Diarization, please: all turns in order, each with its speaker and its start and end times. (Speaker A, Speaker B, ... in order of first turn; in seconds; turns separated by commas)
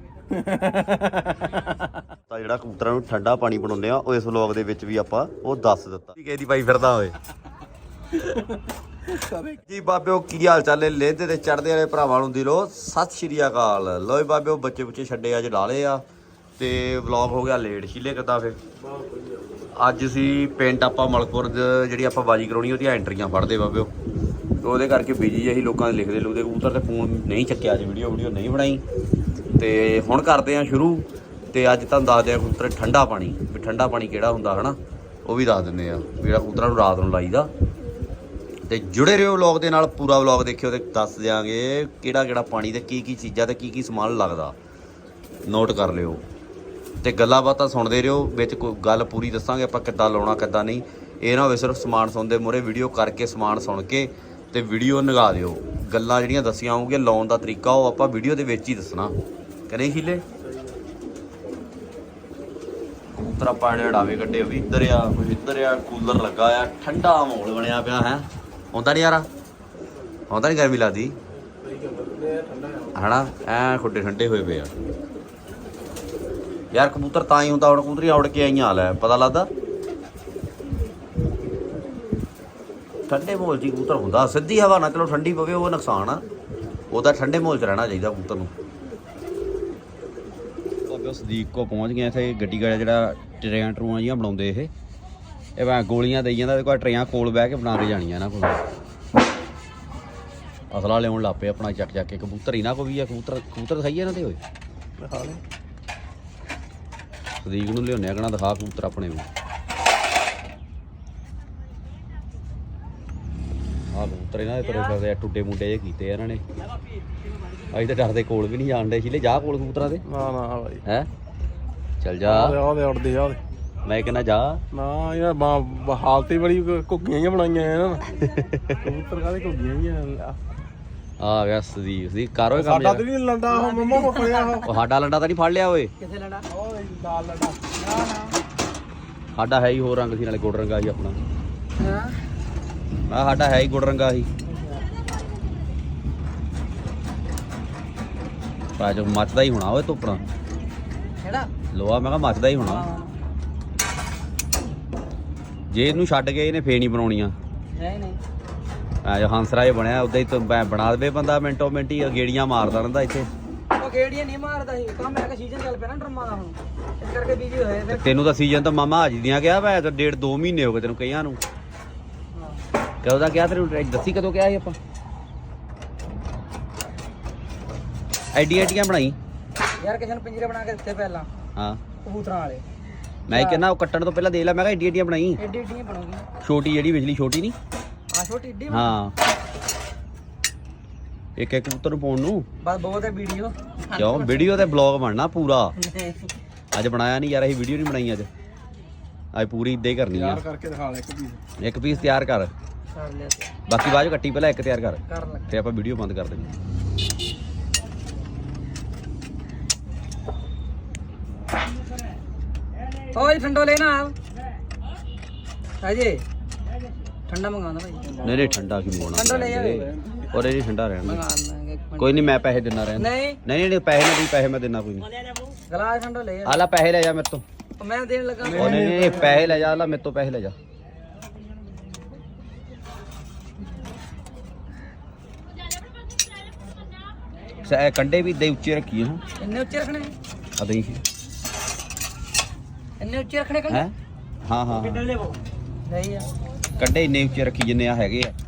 Speaker A: 0.3-1.9, Speaker B: 2.3-7.2, Speaker A: 8.2-8.5, Speaker A: 9.1-9.6, Speaker B: 9.6-16.0, Speaker B: 16.6-18.6, Speaker A: 18.8-19.6, Speaker B: 19.8-23.9, Speaker B: 24.6-28.8, Speaker B: 29.6-37.5, Speaker B: 38.6-44.6, Speaker B: 45.5-46.2, Speaker B: 47.0-59.1, Speaker B: 59.7-60.2, Speaker B: 63.1-69.3, Speaker B: 70.3-71.2, Speaker A: 71.5-72.9, Speaker B: 73.0-74.8, Speaker B: 76.7-79.5, Speaker B: 83.1-86.2, Speaker B: 86.9-88.5, Speaker B: 90.9-94.7, Speaker B: 95.6-98.6, Speaker B: 100.7-104.4, Speaker A: 105.0-105.4, Speaker B: 107.4-109.3, Speaker B: 113.9-116.4, Speaker B: 117.7-120.0, Speaker A: 120.1-120.8, Speaker B: 122.0-122.6, Speaker A: 122.3-123.4, Speaker B: 123.9-124.6, Speaker A: 124.7-128.2, Speaker B: 128.2-128.8, Speaker A: 128.8-130.4, Speaker B: 131.2-133.1, Speaker A: 132.5-134.7, Speaker C: 133.5-134.7, Speaker B: 134.7-135.9, Speaker C: 136.0-136.5, Speaker A: 136.5-137.7, Speaker C: 137.8-138.4, Speaker B: 139.3-141.2, Speaker C: 141.8-142.2, Speaker B: 143.1-144.3, Speaker C: 144.4-144.9, Speaker B: 148.8-150.2, Speaker C: 151.2-151.5, Speaker B: 151.7-152.8, Speaker C: 152.6-153.2, Speaker B: 155.7-157.3, Speaker C: 157.7-158.2, Speaker B: 159.0-163.3, Speaker C: 163.8-168.1, Speaker B: 167.9-171.4, Speaker C: 172.3-172.6, Speaker B: 173.0-174.8, Speaker B: 178.3-179.2, Speaker C: 179.8-181.3, Speaker B: 181.6-181.8, Speaker C: 182.0-182.6, Speaker B: 183.3-185.4, Speaker C: 183.3-183.6, Speaker C: 185.4-186.3, Speaker B: 186.4-187.6, Speaker C: 188.1-188.9, Speaker B: 188.7-189.2, Speaker B: 191.4-192.5, Speaker C: 192.6-194.6, Speaker B: 194.0-195.8, Speaker C: 195.8-196.3, Speaker B: 196.7-198.3, Speaker B: 199.3-200.4, Speaker A: 200.1-201.4, Speaker B: 201.6-202.5, Speaker C: 202.9-203.5, Speaker B: 203.7-206.5, Speaker C: 205.1-205.6, Speaker C: 213.1-214.2, Speaker C: 215.8-216.2, Speaker C: 217.3-218.3, Speaker A: 218.1-218.5, Speaker B: 218.2-221.2, Speaker C: 219.1-220.0, Speaker A: 220.0-220.3, Speaker C: 221.1-222.4, Speaker B: 222.0-225.1, Speaker C: 223.0-223.4, Speaker C: 225.7-226.7, Speaker B: 226.4-227.4, Speaker C: 227.8-229.4, Speaker A: 228.4-229.7, Speaker B: 228.5-230.5, Speaker B: 237.6-239.2, Speaker C: 239.4-240.2, Speaker B: 240.6-241.0, Speaker C: 243.0-243.9, Speaker B: 244.5-245.1, Speaker C: 245.9-246.3, Speaker B: 246.8-248.3